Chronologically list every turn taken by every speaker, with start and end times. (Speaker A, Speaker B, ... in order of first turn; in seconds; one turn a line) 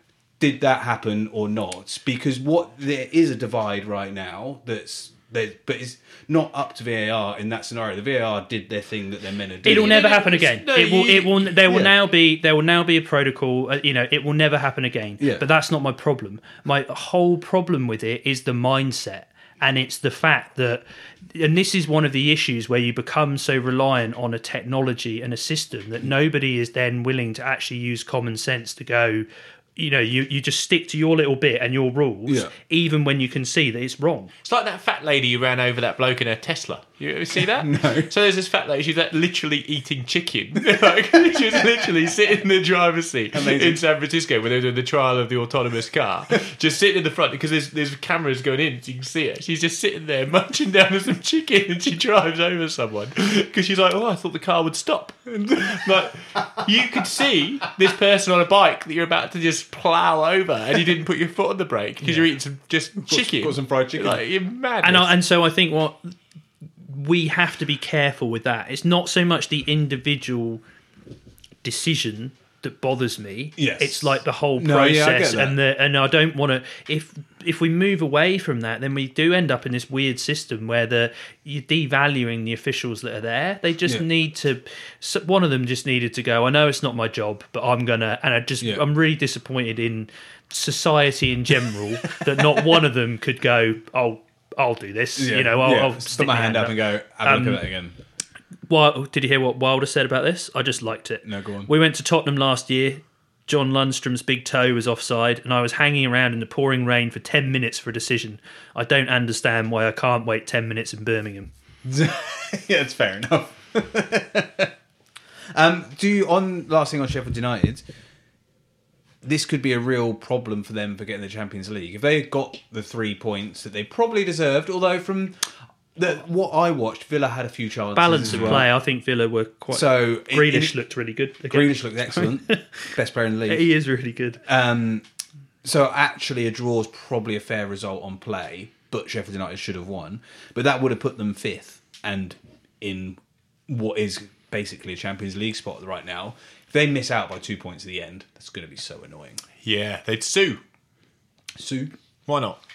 Speaker A: 0.4-10.0
Speaker B: 9.6-34.3
Speaker C: 9.7-11.6
Speaker A: 11.7-11.9
Speaker A: 15.2-15.4
Speaker A: 32.3-32.5
Speaker C: 34.4-65.1
Speaker A: 37.3-38.1
Speaker A: 43.3-43.8
Speaker A: 63.0-64.2
Speaker B: 64.8-66.2
Speaker B: 66.8-70.6
Speaker B: 71.6-97.6
Speaker A: 73.5-75.6
Speaker A: 95.2-97.9
Speaker B: 98.7-111.5
Speaker A: 101.2-101.7
Speaker A: 111.8-114.7
Speaker A: 115.5-117.8
Speaker A: 119.2-125.4
Speaker A: 126.0-128.7
Speaker B: 127.9-132.9
Speaker A: 129.7-130.7
Speaker A: 131.5-133.7
Speaker B: 133.5-134.4
Speaker A: 134.4-135.1
Speaker A: 135.6-149.4
Speaker C: 149.6-150.6
Speaker A: 151.6-151.9
Speaker C: 152.3-152.6